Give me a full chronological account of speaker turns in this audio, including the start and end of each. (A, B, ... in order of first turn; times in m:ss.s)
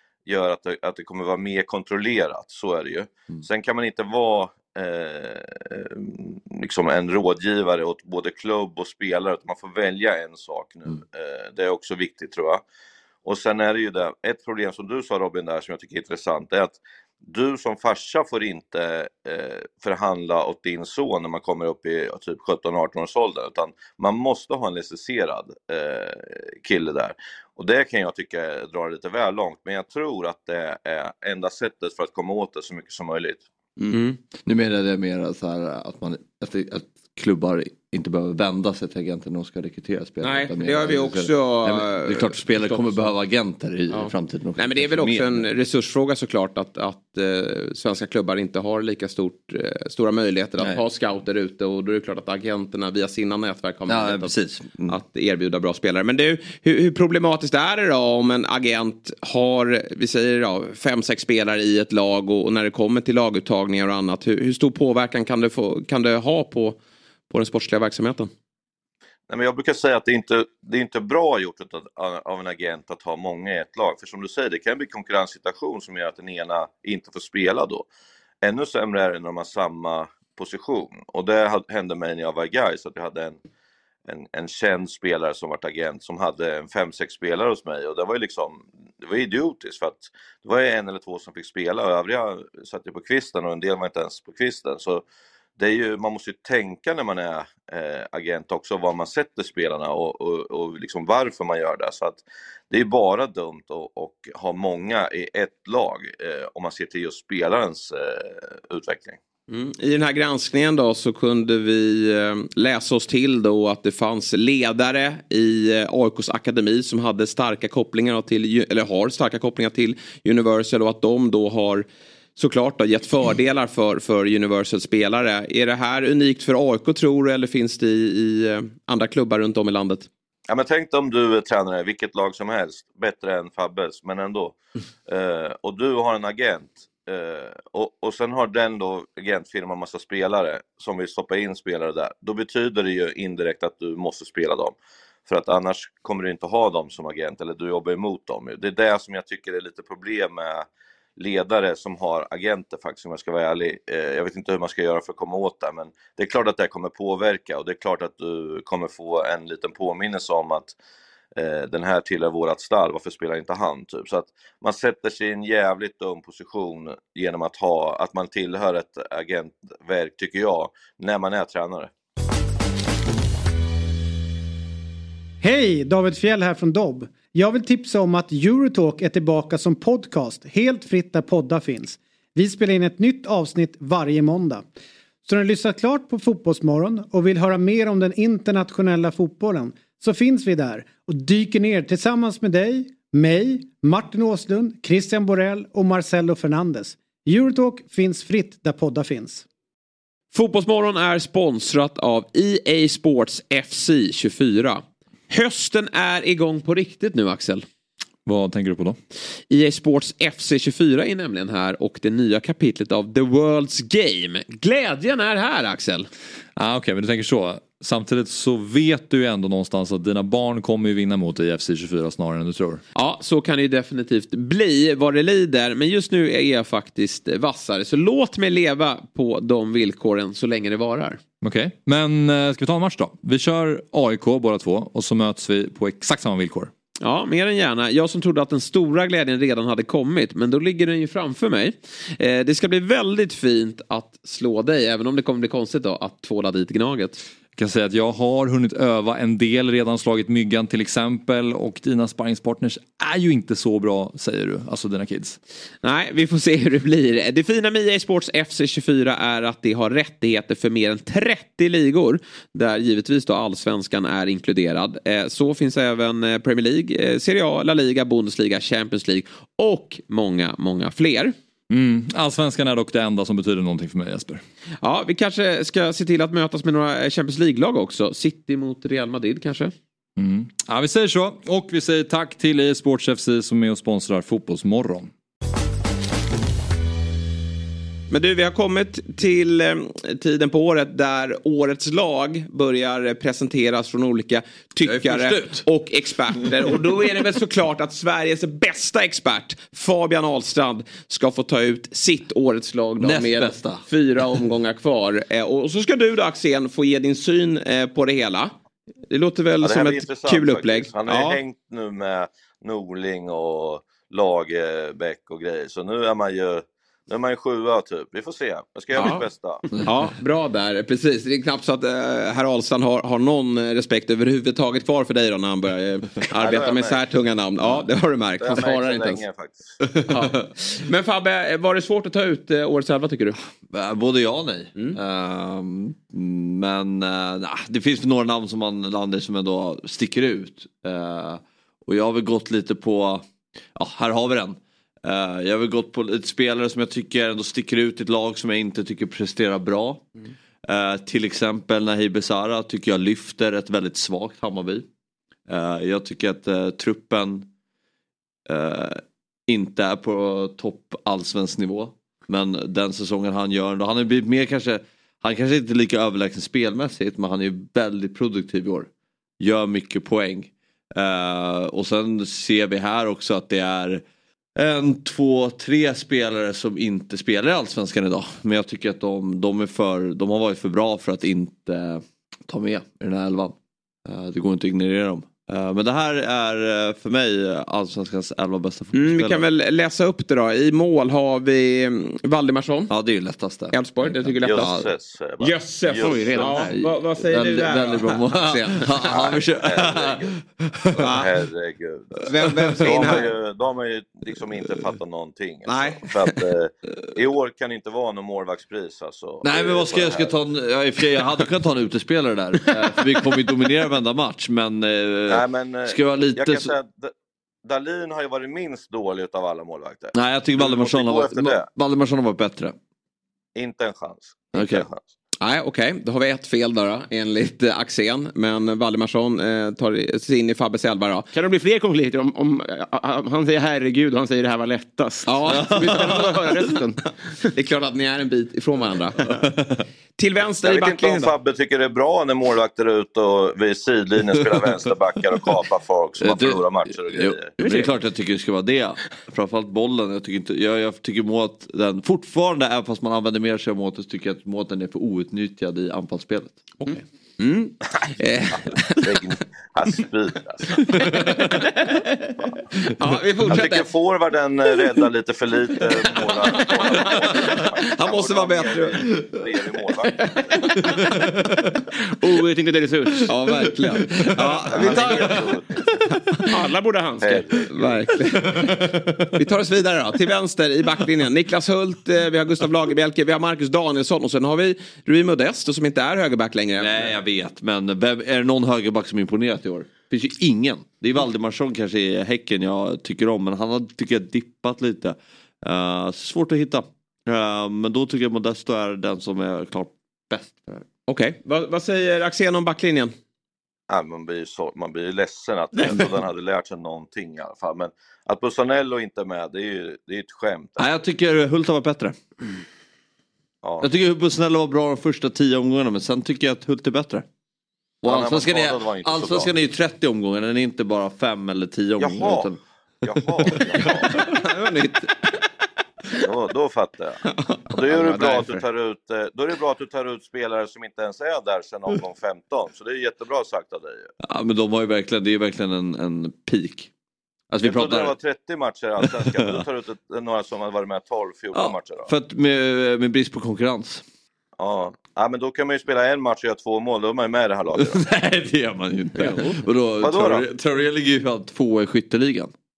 0:00.2-0:12.6 A
0:13.2-0:33.4 A
0:33.9-0:34.2 B
0:34.4-0:45.5 C
0:40.2-0:43.1 B
0:43.9-0:54.4 B
0:53.9-0:55.0 C
0:54.9-1:06.8 B
1:07.3-1:08.3 B
1:09.3-1:17.9 A
1:18.4-1:23.4 A
1:24.0-1:35.0 A
1:35.6-1:49.2 A
1:49.5-2:10.1 B
2:10.5-2:24.7 A
2:25.2-2:40.7 A
2:41.4-2:51.9 A
2:55.4-3:04.6 D
3:05.2-3:19.4 D
3:20.3-3:27.6 B
3:28.2-3:29.0 E
3:29.5-3:36.1 B
3:36.6-3:42.8 E
3:42.9-3:51.2 B
3:51.4-3:56.7 E
3:57.0-4:07.2 B
4:07.5-4:15.4 E
4:15.8-4:31.3 B
4:31.7-4:34.4 E
4:34.8-4:39.7 B
4:40.2-4:45.1 E
4:48.1-5:08.5 B
4:54.9-4:55.3 C
5:03.0-5:03.8 C
5:09.1-5:11.4 B
5:09.6-5:19.6 A
5:19.0-5:19.2 B
5:19.8-5:29.2 B
5:26.3-5:27.0 A
5:28.4-5:29.8 A
5:30.1-5:33.4 B
5:33.7-5:50.1 C
5:50.6-5:54.9 C
5:55.5-5:57.5 C
5:58.5-6:08.9 C
6:09.4-6:14.0 C
6:14.6-6:29.4 C
6:28.9-6:32.9 B
6:32.9-6:34.9 C
6:33.7-6:34.7 B
6:34.4-6:36.6 A
6:35.4-6:39.2 B
6:36.0-6:36.5 F
6:36.4-6:41.1 C
6:39.1-6:40.3 A
6:41.0-6:42.3 A
6:41.0-6:41.3 B
6:42.2-6:43.3 B
6:42.7-6:43.2 C
6:42.8-6:50.3 A
6:45.6-6:46.1 B
6:49.4-6:56.7 C
6:55.3-6:57.1 A
6:57.6-7:01.7 A
7:00.1-7:02.8 C
7:03.6-7:05.0 A
7:04.5-7:04.9 C
7:05.4-7:11.3 B
7:11.3-7:17.0 F
7:15.3-7:16.2 B
7:15.5-7:16.4 C
7:17.5-7:19.3 B
7:19.3-7:19.8 C
7:20.2-7:21.3 B
7:20.6-7:27.5 A
7:26.2-7:36.6 C
7:27.6-7:27.9 B
7:36.8-7:39.1 B
7:39.0-7:41.0 A
7:41.1-7:42.3 B
7:43.0-7:43.8 B
7:43.5-7:50.4 A
7:46.5-7:49.0 B
7:52.2-7:53.3 F
7:53.3-7:55.3 B
7:53.8-7:55.5 C
7:54.7-7:55.8 A
7:56.4-7:57.6 F
7:57.2-7:58.0 A
7:57.7-7:58.7 B
7:58.6-7:59.1 C
7:59.3-8:07.1 B
8:06.8-8:20.9 C
8:21.1-8:23.1 B
8:23.9-8:30.8 A
8:30.8-8:32.2 C
8:33.6-8:33.9 A
8:33.8-8:37.2 C
8:38.0-8:42.6 C
8:38.0-8:39.5 A
8:42.0-8:42.5 A
8:43.0-8:44.3 A
8:43.8-8:45.4 B
8:46.2-8:54.1 A
8:47.2-8:48.5 B
8:54.2-8:56.9 C
8:57.5-8:58.1 C
8:57.6-9:02.1 A
8:59.0-8:59.6 C
9:01.5-9:04.0 C
9:04.6-9:08.0 A
9:07.8-9:12.5 C
9:10.0-9:10.4 A